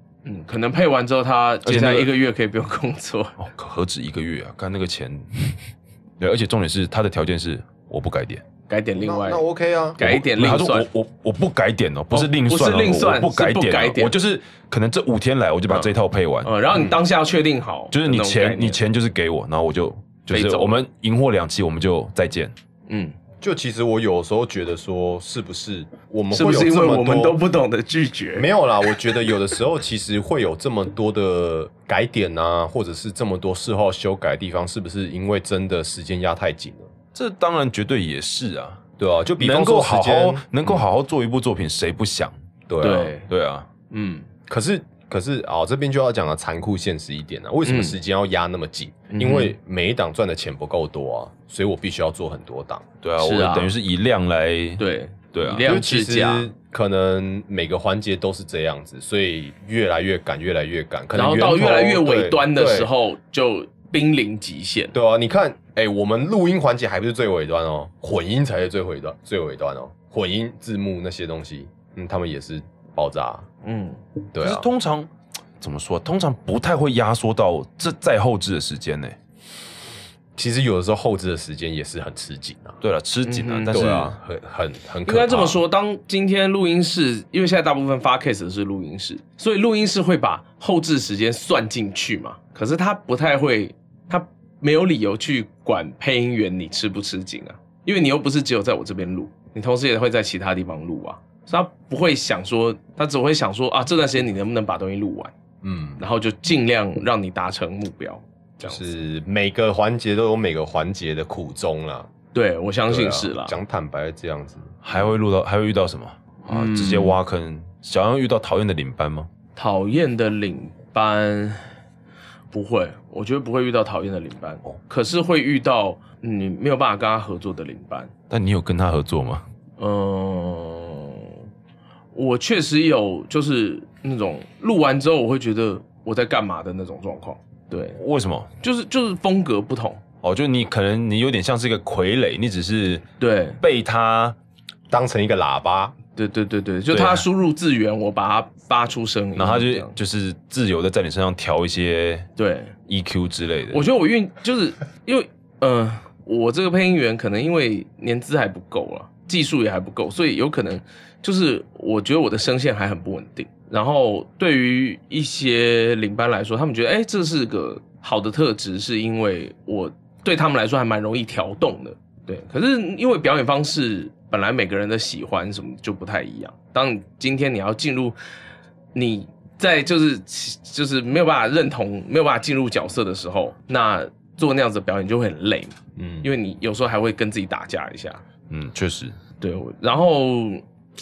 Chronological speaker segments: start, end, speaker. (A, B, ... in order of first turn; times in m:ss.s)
0:00.2-0:03.3 A
0:01.6-0:02.1 B
0:03.4-0:05.6 B
0:06.2-0:08.4 B
0:08.7-0:09.4 A
0:09.0-0:10.0 C
0:10.0-0:10.9 A
0:10.0-0:16.5 B
0:12.1-0:14.1 A
0:15.7-0:18.8 A
0:17.9-0:22.5 B
0:20.3-0:20.8 A
0:22.9-0:23.2 A
0:23.4-0:27.4 C
0:26.3-0:28.9 A
0:28.4-0:36.9 C
0:37.1-0:38.8 B
0:39.0-0:40.8 C
0:39.4-0:42.3 B
0:42.7-0:43.2 C
0:42.8-0:43.3 A
0:43.3-0:43.7 B
0:43.9-0:44.3 A
0:44.5-0:52.8 C
0:47.6-0:48.0 A
0:49.1-0:49.5 A
0:53.0-0:54.8 B
0:53.2-0:53.7 A
0:54.8-0:56.5 A
0:55.3-0:55.6 B
0:55.6-1:02.9 C
1:01.1-1:04.9 A
1:04.9-1:13.4 C
1:13.6-1:14.0 A
1:14.3-1:14.6 C
1:14.4-1:15.1 B
1:15.6-1:19.2 B
1:20.4-1:22.8 C
1:22.8-1:24.2 B
1:23.2-1:24.0 A
1:23.7-1:25.6 C
1:25.0-1:45.3 A
1:45.6-1:46.0 C
1:46.0-1:48.9 A
1:48.6-1:52.1 C
1:52.3-1:53.6 A
1:52.9-1:54.7 C
1:54.8-1:59.3 B
1:56.4-1:57.2 A
1:59.6-2:01.6 A
2:02.5-2:08.1 A
2:08.3-2:09.4 B
2:09.8-2:11.4 A
2:12.1-2:18.0 A
2:18.0-2:18.5 B
2:18.6-2:20.0 A
2:20.2-2:23.0 B
2:23.2-2:23.6 A
2:23.6-2:24.4 B
2:24.9-2:25.9 C
2:26.2-2:29.9 A
2:26.9-2:27.3 B
2:29.4-2:32.3 B
2:32.4-2:32.7 A
2:32.9-2:33.9 B
2:33.7-2:58.2 A
2:58.9-3:08.2 A
3:06.0-3:06.3 C
3:08.5-3:09.2 B
3:09.4-3:10.6 A